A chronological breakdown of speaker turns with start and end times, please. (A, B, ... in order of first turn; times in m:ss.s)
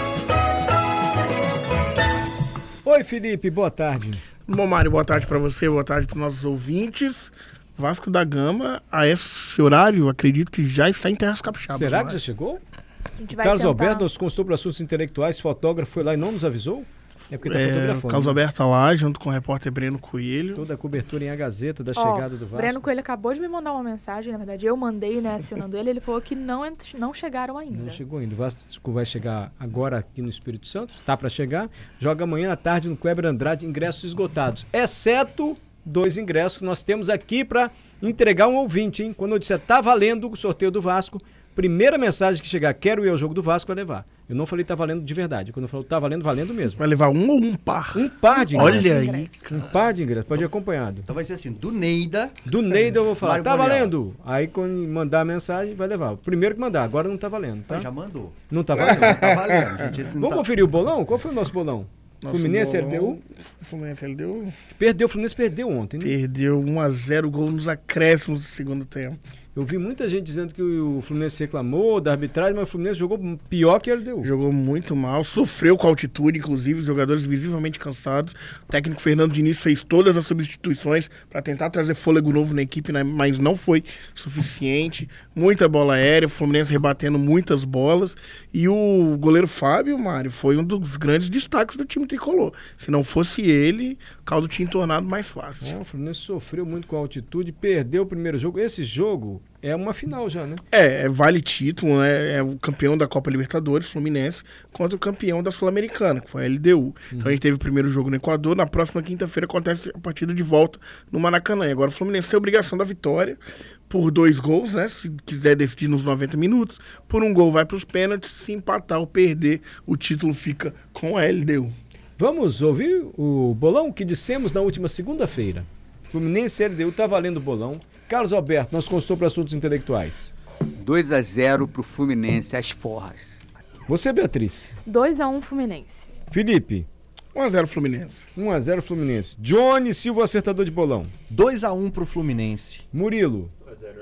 0:02.8-0:04.2 A
0:04.5-0:12.2 B
0:11.7-0:12.6 A
0:13.2-0:14.1 C
0:13.3-0:18.4 A
0:17.4-0:20.7 B
0:20.5-0:22.8 A
0:21.9-0:28.0 C
0:27.7-0:46.8 A
0:46.8-0:49.7 B
0:47.9-0:48.9 A
0:48.3-0:49.6 C
0:49.5-0:51.1 A
0:51.1-0:52.4 D
0:52.4-0:57.9 A
0:53.2-0:53.9 D
0:57.7-0:58.3 D
0:58.5-0:59.4 A
0:58.8-0:59.6 B
0:58.9-1:00.5 D
1:00.1-1:03.2 A
1:02.2-1:04.5 B
1:04.7-1:06.2 A
1:06.0-1:09.2 B
1:09.5-1:14.3 A
1:14.2-1:35.8 B
1:35.6-1:40.6 A
1:40.7-2:01.7 B
1:47.1-1:47.4 A
2:02.2-2:10.3 A
2:10.8-2:13.2 E
2:13.9-2:14.7 A
2:14.8-2:16.1 C
2:16.3-2:16.9 A
2:17.3-2:18.3 B
2:18.4-2:21.1 A
2:21.3-2:22.8 D
2:22.9-2:23.5 A